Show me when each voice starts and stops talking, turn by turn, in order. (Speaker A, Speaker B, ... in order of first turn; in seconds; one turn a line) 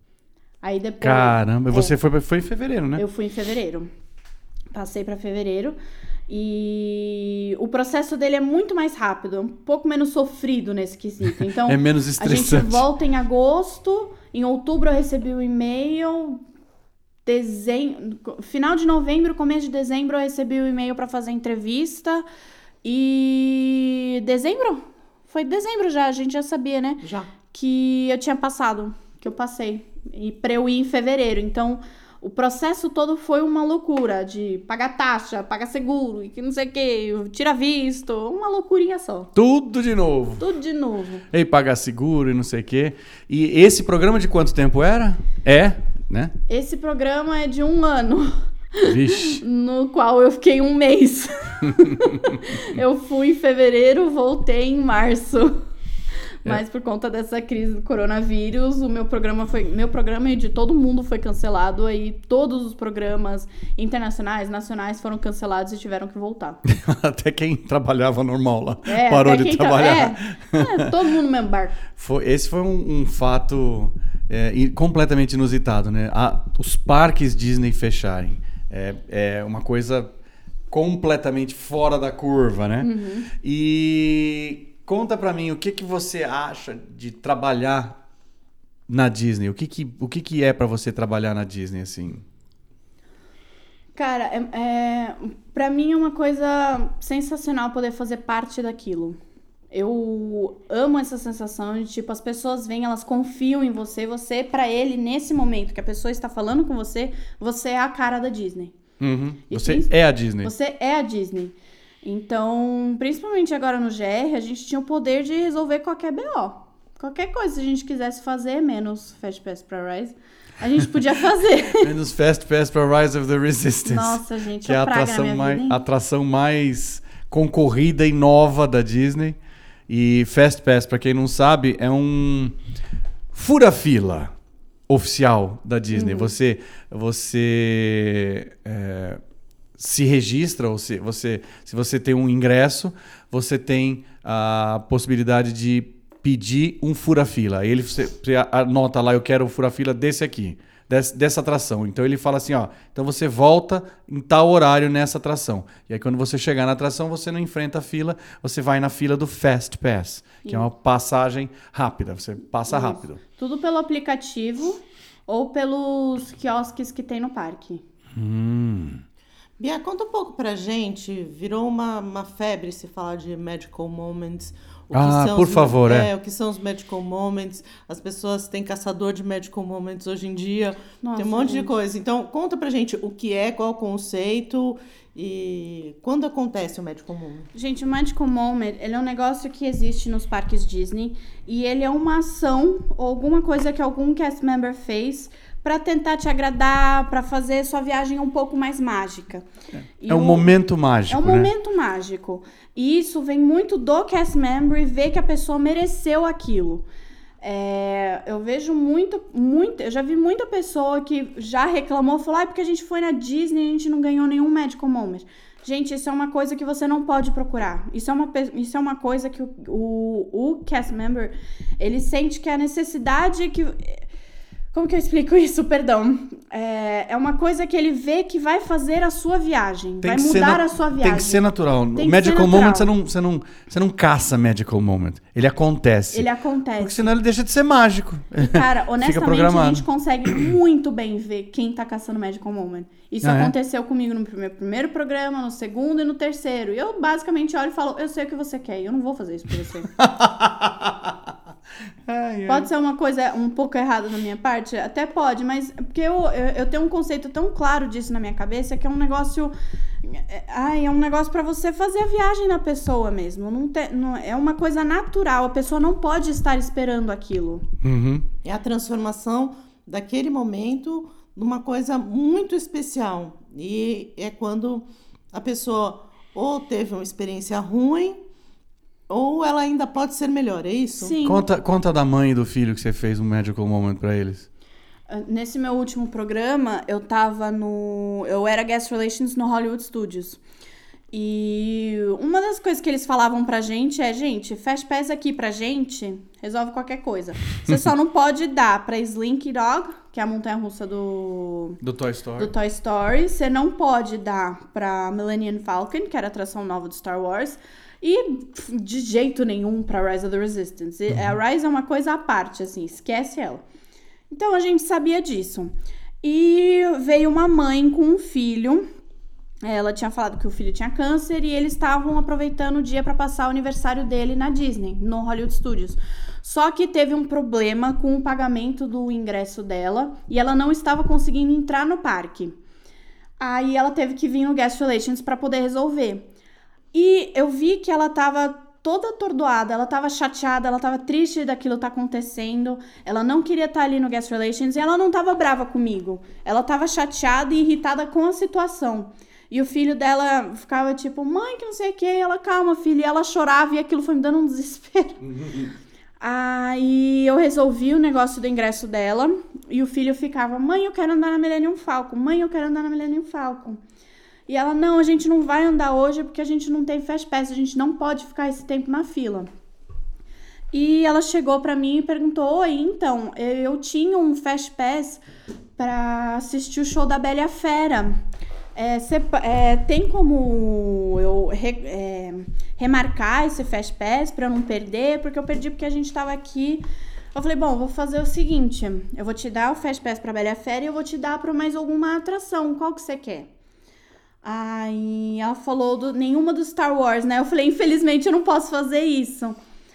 Speaker A: 0.6-1.9
Speaker B: 1.0-3.0
Speaker A: 3.0-3.9
Speaker A: 4.7-5.8
Speaker A: 6.3-16.4
Speaker B: 11.7-12.9
Speaker A: 17.3-22.2
Speaker A: 22.8-39.3
Speaker C: 27.0-27.3
Speaker B: 39.4-40.4
Speaker A: 40.4-41.2
Speaker B: 41.3-46.3
Speaker A: 46.5-55.6
Speaker B: 48.8-49.4
Speaker A: 56.4-66.6
Speaker B: 66.7-70.8
Speaker A: 68.9-71.8
Speaker B: 71.9-80.1
Speaker B: 80.7-82.9
Speaker A: 82.8-83.3
Speaker B: 83.4-88.0
Speaker B: 88.9-92.2
Speaker A: 94.0-99.2
Speaker A: 99.7-108.8
Speaker B: 109.0-110.5
Speaker A: 109.5-109.9
Speaker A: 110.4-121.9
Speaker B: 121.8-129.4
Speaker A: 123.8-125.8
Speaker B: 129.9-132.6
Speaker B: 133.3-134.3
Speaker B: 134.9-139.2
Speaker A: 135.9-136.3
Speaker B: 139.8-163.2
Speaker A: 162.7-167.8
Speaker B: 168.2-169.0
Speaker C: 169.6-187.5
Speaker B: 174.9-176.1
Speaker A: 181.0-181.7
Speaker A: 187.5-199.4
Speaker A: 200.0-200.5
Speaker B: 200.1-201.5
Speaker A: 201.1-206.8
Speaker A: 207.4-224.0
Speaker A: 224.7-231.4
Speaker B: 230.0-236.3
Speaker A: 232.0-232.9
Speaker A: 236.1-237.1
Speaker B: 236.8-240.4
Speaker A: 238.4-249.9
Speaker B: 243.2-243.5
Speaker B: 250.0-251.1
Speaker B: 252.1-252.7
Speaker A: 252.5-267.7
Speaker B: 267.8-268.2
Speaker C: 268.4-278.2
Speaker C: 279.1-281.2
Speaker A: 281.0-281.5
Speaker B: 281.2-284.5
Speaker A: 285.1-290.4
Speaker A: 291.1-301.8
Speaker B: 301.8-302.5
Speaker A: 302.4-313.6
Speaker A: 314.3-315.7
Speaker A: 316.2-318.9
Speaker A: 319.6-332.5
Speaker A: 333.4-336.3
Speaker A: 336.9-355.2
Speaker B: 355.2-355.7
Speaker A: 356.2-363.8
Speaker A: 364.5-369.5
Speaker A: 370.7-375.2
Speaker A: 375.8-378.2
Speaker A: 378.8-393.5
Speaker A: 394.4-399.6